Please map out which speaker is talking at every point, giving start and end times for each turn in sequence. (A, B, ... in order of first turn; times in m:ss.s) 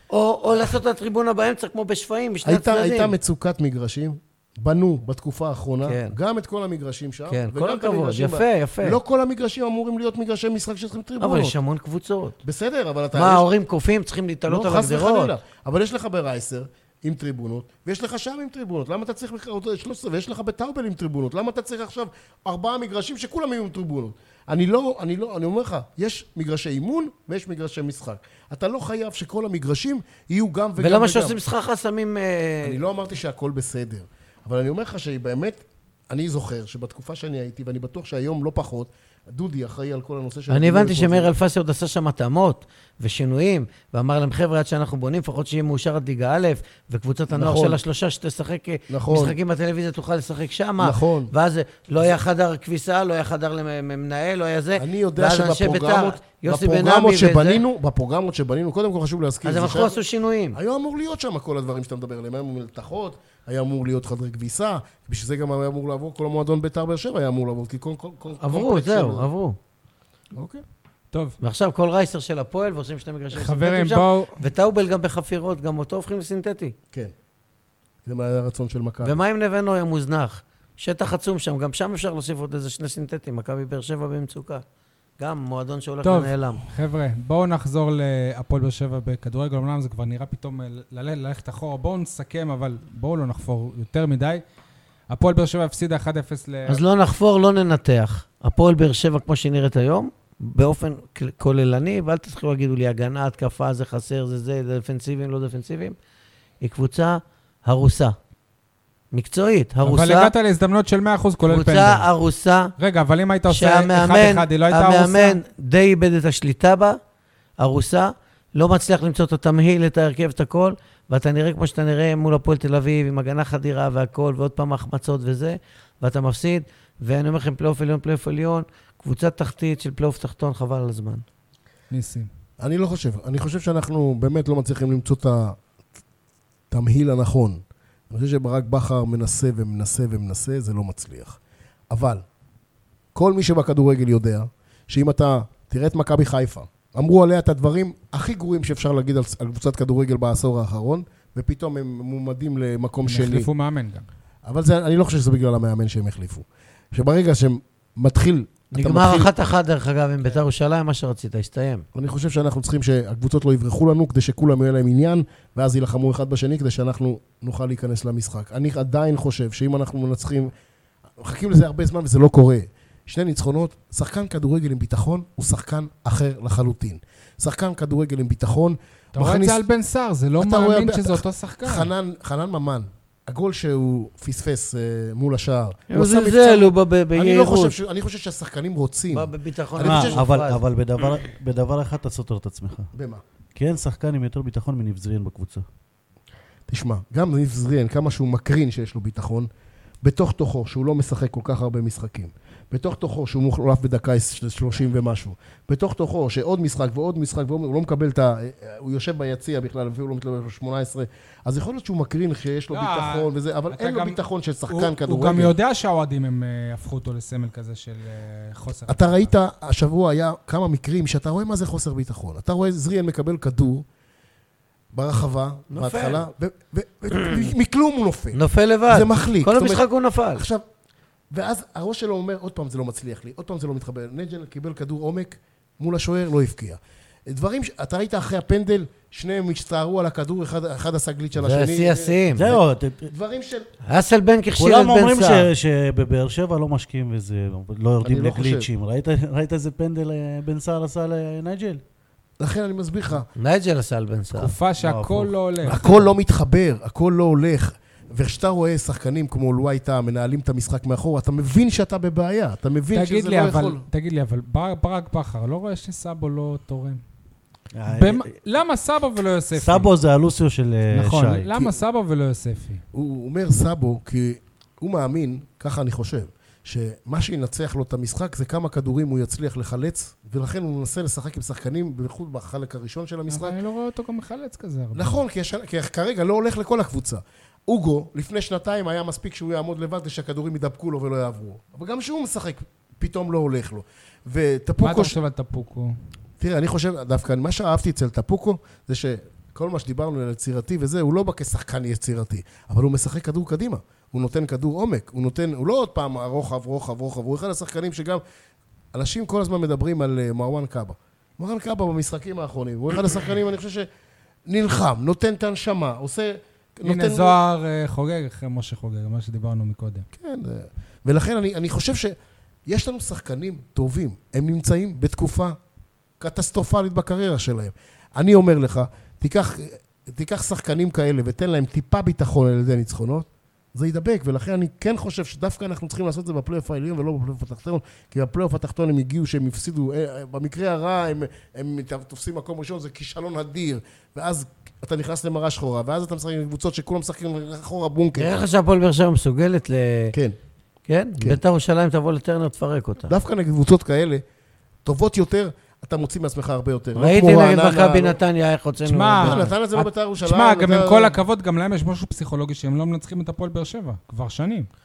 0:00.1-0:03.1 A
0:02.4-0:11.6 B
0:05.8-0:06.1 A
0:07.3-0:09.0 A
0:11.2-0:12.4 A
0:12.4-0:13.5 B
0:13.1-0:15.3 A
0:14.5-0:31.4 B
0:30.8-0:32.8 A
0:32.6-0:41.3 B
0:40.5-0:57.6 A
0:47.3-0:47.8 B
0:48.9-0:49.4 B
0:50.8-0:51.3 B
0:54.8-1:00.0 B
0:59.4-1:00.6 A
1:00.5-1:09.3 B
1:08.4-1:09.6 A
1:10.3-1:10.6 B
1:11.4-1:16.7 A
1:13.3-1:14.3 C
1:18.0-1:19.2 B
1:19.0-1:24.6 A
1:25.2-1:26.6 A
1:26.0-1:34.4 C
1:35.1-1:36.8 C
1:36.7-1:46.0 A
1:46.6-1:48.2 A
1:49.1-1:50.3 A
1:49.8-1:52.1 C
1:51.5-1:52.7 A
1:52.8-1:55.4 C
1:53.5-1:57.0 A
1:57.6-2:11.2 A
2:11.9-2:12.3 C
2:12.6-2:15.6 B
2:16.7-2:21.4 B
2:21.9-2:22.2 B
2:23.1-2:33.5 B
2:33.0-2:34.0 C
2:34.4-2:39.3 B
2:38.7-2:41.8 A
2:41.9-2:50.5 B
2:51.2-2:59.6 B
2:59.1-3:01.9 C
3:00.4-3:10.2 B
3:05.9-3:07.8 A
3:09.1-3:10.6 A
3:09.8-3:12.9 D
3:12.9-3:13.2 B
3:13.6-3:15.6 D
3:16.7-3:19.5 B
3:20.0-3:35.5 B
3:32.7-3:34.2 C
3:34.7-3:39.3 C
3:38.9-3:43.8 B
3:44.9-3:50.6 B
3:45.7-3:46.3 A
3:48.3-3:50.4 A
3:51.3-4:03.7 B
4:01.4-4:02.4 A
4:02.3-4:03.1 D
4:03.8-4:05.5 A
4:04.6-4:11.8 D
4:08.0-4:08.7 B
4:12.4-4:13.3 B
4:13.4-4:14.5 A
4:14.4-4:15.8 C
4:14.8-4:16.1 D
4:15.6-4:23.8 B
4:22.9-4:27.0 C
4:27.7-4:28.3 D
4:27.9-4:29.9 C
4:29.6-4:31.5 D
4:30.9-4:32.8 C
4:32.9-4:43.6 B
4:43.3-4:45.2 C
4:44.9-4:55.2 B
4:54.8-4:55.9 C
4:56.4-5:08.2 B
5:08.9-5:13.9 B
5:14.5-5:17.4 B
5:16.8-5:20.0 C
5:20.1-5:22.2 B
5:22.7-5:25.6 B
5:26.2-5:48.3 B
5:48.2-5:50.2 A
5:50.9-5:53.1 A
5:53.1-5:54.2 B
5:54.8-5:58.2 B
5:56.9-5:59.5 A
5:58.8-6:04.7 C
5:59.2-6:01.2 B